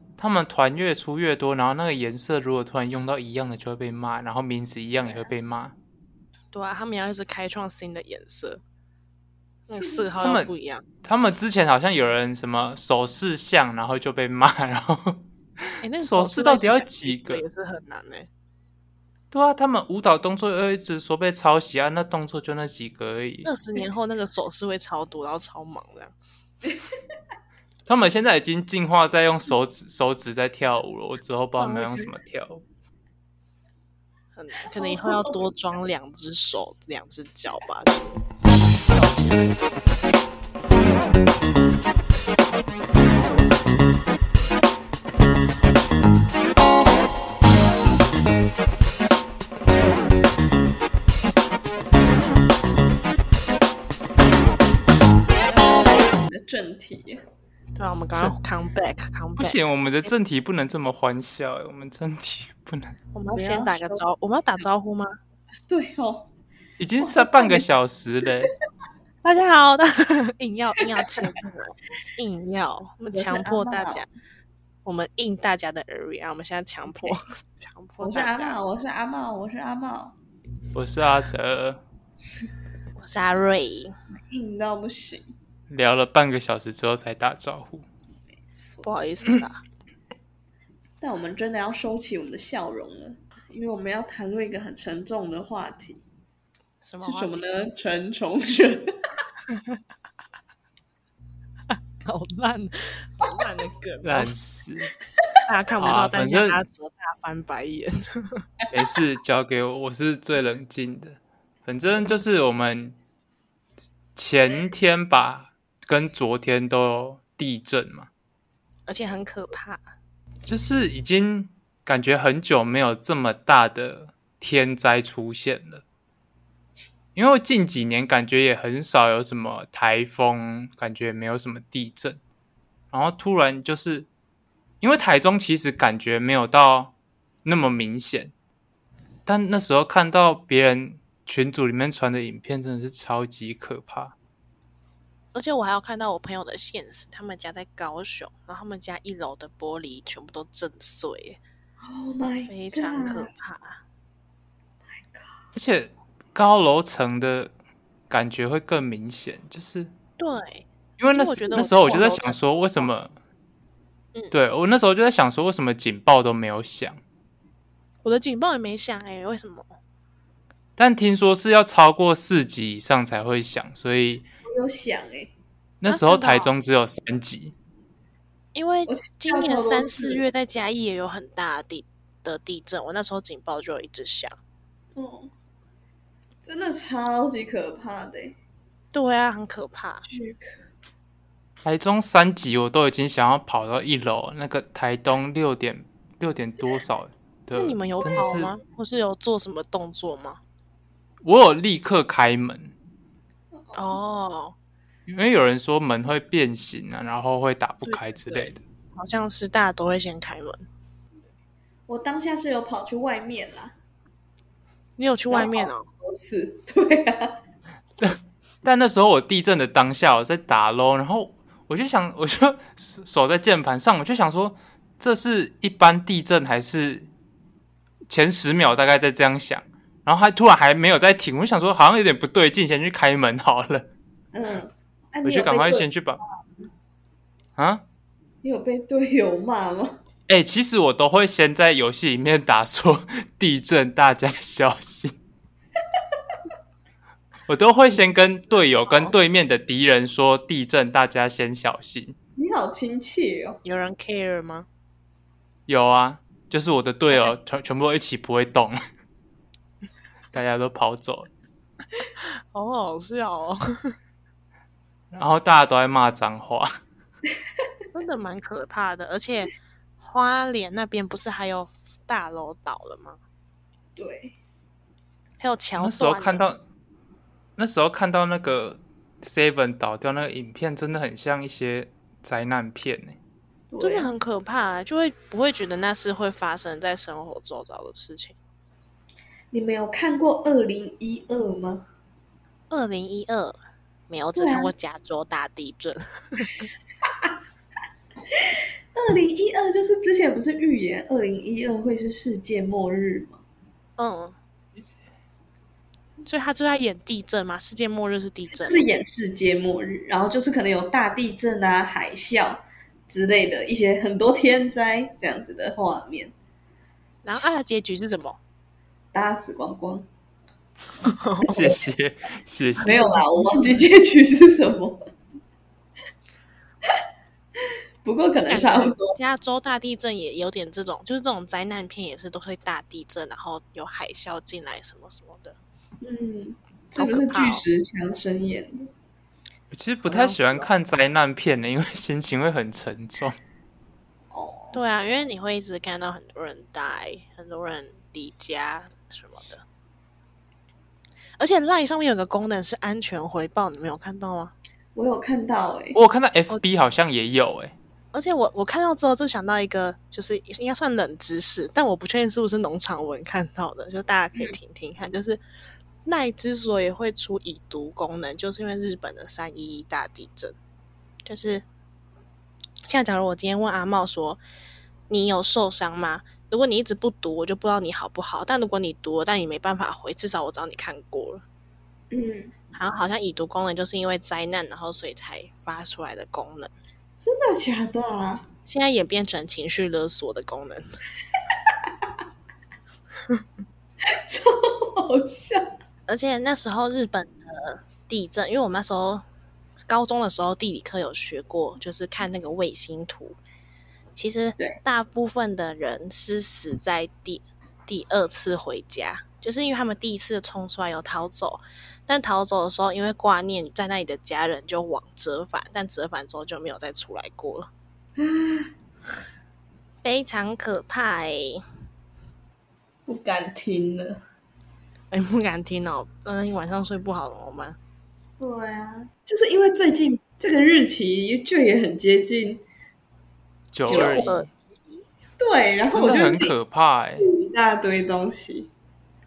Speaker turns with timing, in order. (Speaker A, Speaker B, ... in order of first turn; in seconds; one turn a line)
Speaker A: 0.2-5.7
Speaker B: 5.0-5.3
Speaker C: 6.5-8.6
Speaker C: 9.7-10.8
Speaker B: 9.8-10.1
Speaker A: 10.2-10.5
Speaker A: 11.0-15.2
Speaker C: 15.8-18.3
Speaker A: 15.9-17.4
Speaker A: 19.3-23.5
Speaker C: 23.4-26.1
Speaker A: 27.9-32.6
Speaker C: 31.6-32.1
Speaker C: 34.4-38.1
Speaker B: 34.7-35.4
Speaker C: 38.7-39.5
Speaker B: 55.5-57.2
Speaker C: 57.8-59.6
Speaker A: 59.4-63.0
Speaker C: 63.1-65.1
Speaker B: 63.3-64.0
Speaker B: 65.7-66.3
Speaker A: 66.8-68.5
Speaker B: 67.0-67.7
Speaker C: 69.2-74.1
Speaker B: 73.1-74.1
Speaker C: 74.8-78.6
Speaker B: 78.0-80.2
Speaker A: 80.7-81.8
Speaker C: 83.0-83.9
Speaker B: 84.3-85.3
Speaker A: 85.7-87.9
Speaker B: 88.5-88.9
Speaker C: 88.8-89.6
Speaker B: 91.0-96.0
Speaker C: 96.8-97.5
Speaker B: 97.0-98.9
Speaker C: 102.1-104.3
Speaker A: 104.0-104.9
Speaker C: 105.5-108.4
Speaker A: 105.8-106.6
Speaker A: 108.7-113.0
Speaker A: 114.2-118.1
Speaker C: 118.9-119.8
Speaker A: 120.5-125.8
Speaker A: 127.2-132.2
Speaker A: 132.9-134.1
Speaker A: 134.8-138.3
Speaker A: 139.3-144.2
Speaker C: 145.3-151.4
Speaker B: 151.8-153.3
Speaker C: 152.4-153.8
Speaker B: 154.9-155.4
Speaker A: 155.6-157.5
Speaker A: 158.1-159.9
Speaker C: 160.2-162.9
Speaker A: 161.0-163.1
Speaker A: 164.3-167.0
Speaker C: 168.0-169.7
Speaker A: 170.8-174.3
Speaker B: 174.5-175.3
Speaker A: 175.8-177.5
Speaker C: 175.8-176.6
Speaker C: 178.6-184.3
Speaker B: 178.9-180.2
Speaker B: 185.0-185.3
Speaker B: 186.4-188.4
Speaker C: 188.9-190.1
Speaker B: 190.1-190.7
Speaker A: 191.6-198.5
Speaker C: 197.6-200.4
Speaker B: 198.0-198.4
Speaker A: 201.2-202.7
Speaker B: 203.6-204.0
Speaker C: 203.8-204.6
Speaker A: 205.1-208.6
Speaker C: 207.8-210.6
Speaker B: 211.9-213.7
Speaker C: 215.0-215.9
Speaker B: 215.3-217.4
Speaker A: 218.0-227.1
Speaker A: 228.1-233.9
Speaker B: 234.3-236.0
Speaker A: 235.2-236.2
Speaker A: 237.6-237.8
Speaker B: 238.4-240.0
Speaker A: 240.3-245.2
Speaker A: 247.5-252.2
Speaker B: 252.4-253.6
Speaker C: 253.7-254.7
Speaker A: 255.7-258.8
Speaker A: 260.3-261.3
Speaker C: 262.5-263.9
Speaker A: 265.1-266.7
Speaker C: 267.9-273.2
Speaker B: 274.0-274.4
Speaker C: 275.4-276.4
Speaker A: 275.8-276.6
Speaker A: 277.6-283.2
Speaker B: 283.7-284.1
Speaker C: 283.8-288.4
Speaker B: 289.5-291.9
Speaker C: 292.7-293.6
Speaker C: 294.1-296.7
Speaker B: 294.3-294.7
Speaker B: 297.1-297.3
Speaker B: 298.9-303.4
Speaker C: 304.0-304.4
Speaker C: 306.2-308.9
Speaker B: 308.6-316.3
Speaker C: 317.2-318.4
Speaker B: 319.1-320.1
Speaker C: 321.1-321.8
Speaker A: 321.5-323.2
Speaker B: 322.8-325.0
Speaker C: 322.9-323.2
Speaker B: 328.0-329.1
Speaker C: 328.5-335.6
Speaker B: 336.0-338.9
Speaker C: 336.9-337.6
Speaker A: 339.7-343.4
Speaker C: 340.0-340.7
Speaker B: 344.3-344.8
Speaker C: 344.7-349.6
Speaker C: 351.4-354.5
Speaker B: 354.9-356.0
Speaker A: 355.9-357.7
Speaker C: 358.1-365.4
Speaker C: 366.1-370.6
Speaker C: 371.3-371.7
Speaker C: 372.9-374.4
Speaker C: 375.1-381.4
Speaker B: 382.1-382.5
Speaker C: 382.7-386.7
Speaker B: 387.2-388.5
Speaker C: 388.7-390.8
Speaker B: 394.1-395.7
Speaker C: 396.1-399.2
Speaker C: 399.9-403.4
Speaker C: 404.2-417.7
Speaker B: 418.2-418.7
Speaker C: 420.0-421.6
Speaker B: 423.1-424.2
Speaker C: 425.1-427.8
Speaker B: 428.4-432.6
Speaker A: 433.7-434.5
Speaker B: 433.9-434.3
Speaker C: 433.9-435.0
Speaker B: 435.4-436.5
Speaker A: 435.9-437.3
Speaker B: 437.2-438.7